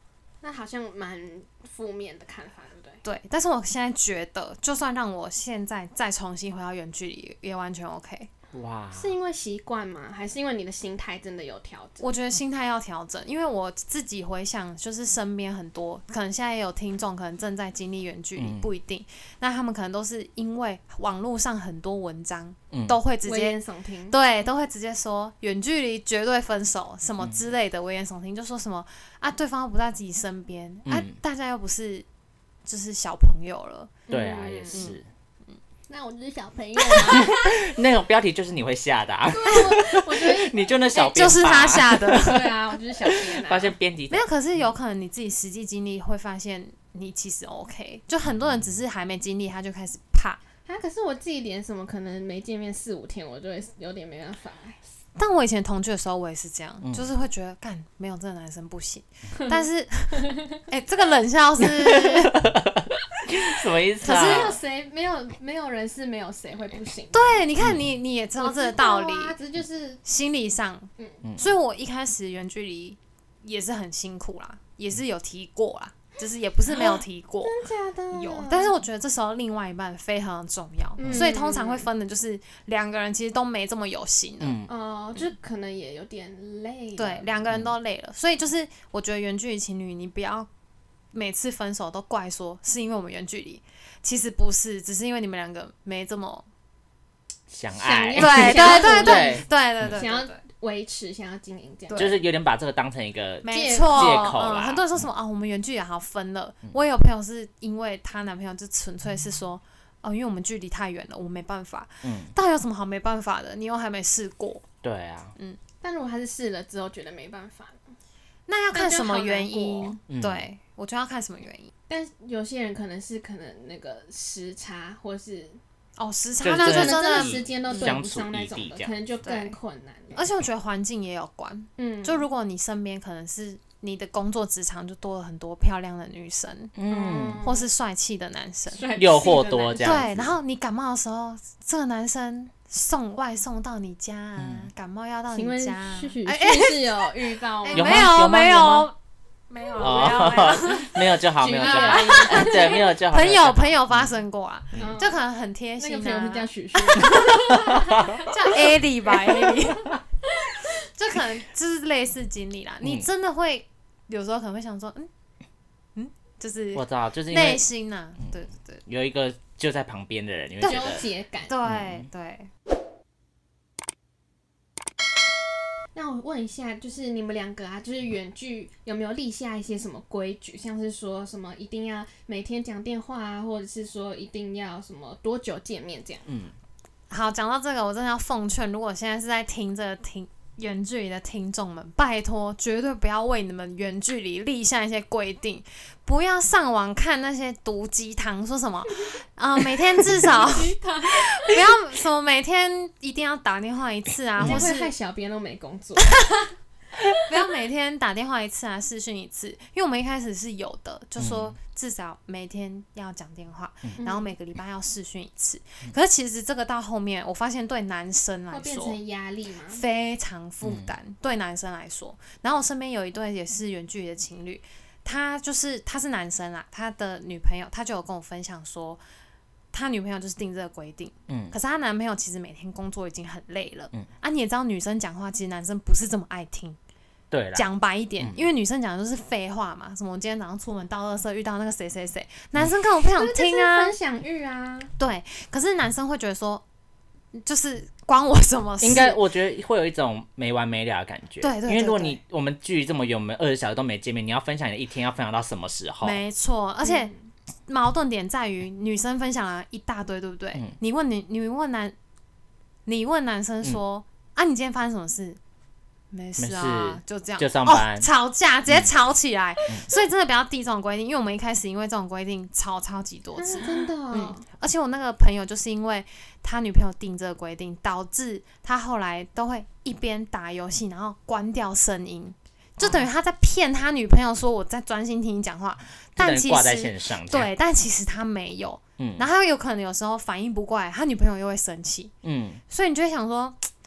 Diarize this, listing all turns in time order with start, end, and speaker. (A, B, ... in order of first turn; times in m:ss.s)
0:00.4-0:03.0 A
0:03.0-0:08.3 B
0:08.5-0:09.1 C
0:08.9-0:12.0 A
0:12.0-0:23.6 B
0:18.4-0:18.7 C
0:22.7-0:23.0 C
0:23.2-0:24.2 A
0:24.1-0:32.1 B
0:30.9-0:31.2 C
0:32.6-0:34.0 B
0:34.1-0:34.9 A
0:34.1-0:35.1 C
0:34.7-0:35.0 B
0:35.9-0:37.5 A
0:37.0-0:44.3 C
0:39.3-0:41.3 A
0:41.0-0:42.5 B
0:42.2-0:43.8 A
0:44.1-0:50.4 B
0:48.3-0:48.6 C
0:50.7-0:54.8 A
0:55.2-1:02.5 B
1:00.2-1:00.4 A
1:01.6-1:04.6 C
1:04.0-1:04.6 B
1:04.0-1:07.4 A
1:07.1-1:09.4 B
1:08.4-1:10.0 A
1:10.0-1:24.6 B
1:16.8-1:18.8 A
1:21.0-1:21.9 A
1:21.0-1:21.3 C
1:24.4-1:24.7 C
1:24.7-1:27.3 A
1:27.0-1:30.5 B
1:31.1-1:36.5 B
1:37.5-1:40.0 C
1:37.7-1:42.2 A
1:38.2-1:40.4 B
1:41.9-1:42.2 B
1:42.0-1:45.1 C
1:43.4-1:54.7 B
1:43.5-1:44.4 A
1:52.0-1:52.3 C
1:54.8-1:55.3 C
1:55.8-1:57.8 A
1:58.5-2:01.7 B
1:58.7-2:00.0 A
2:00.1-2:00.4 C
2:01.9-2:05.6 A
2:06.0-2:08.0 B
2:06.4-2:09.0 C
2:06.5-2:10.2 A
2:09.2-2:09.6 B
2:10.1-2:16.8 B
2:11.8-2:12.2 A
2:16.8-2:17.4 C
2:16.9-2:17.7 A
2:17.4-2:18.9 B
2:18.7-2:20.0 A
2:19.0-2:20.3 C
2:19.8-2:29.0 B
2:24.4-2:24.7 C
2:25.3-2:28.2 A
2:27.7-2:28.9 C
2:29.5-2:31.0 B
2:29.8-2:34.1 C
2:30.3-2:32.8 A
2:31.6-2:40.0 B
2:34.8-2:35.2 A
2:35.8-2:38.8 A
2:37.6-2:38.2 C
2:39.3-2:39.6 A
2:40.3-2:40.6 A
2:41.0-2:45.1 B
2:46.0-2:48.8 B
2:46.8-2:47.6 C
2:48.9-2:51.0 C
2:50.6-2:51.5 A
2:51.5-2:52.5 B
2:51.6-2:52.0 C
2:56.0-3:06.3 A
3:06.3-3:06.5 C
3:07.1-3:24.9 B
3:20.0-3:21.7 A
3:24.4-3:24.7 C
3:24.4-3:26.4 A
3:26.0-3:26.5 B
3:27.3-3:39.0 B
3:31.2-3:31.6 C
3:34.0-3:34.3 A
3:38.5-3:39.8 A
3:39.7-3:49.0 B
3:40.6-3:40.9 C
3:49.7-3:56.8 B
3:51.3-3:51.5 C
3:57.3-3:57.6 C
3:57.5-4:03.9 B
4:03.0-4:04.9 A
4:05.0-4:06.6 B
4:07.3-4:09.2 B
4:08.8-4:16.2 C
4:11.4-4:12.2 B
4:16.0-4:17.1 B
4:16.8-4:17.1 A
4:17.7-4:22.0 B
4:22.9-4:25.4 B
4:26.1-4:52.1 B
4:26.4-4:28.1 C
4:33.4-4:34.4 A
4:42.8-4:43.1 C
4:46.2-4:47.5 C
4:49.0-4:49.3 C
4:52.2-4:52.6 C
4:52.7-4:53.7 B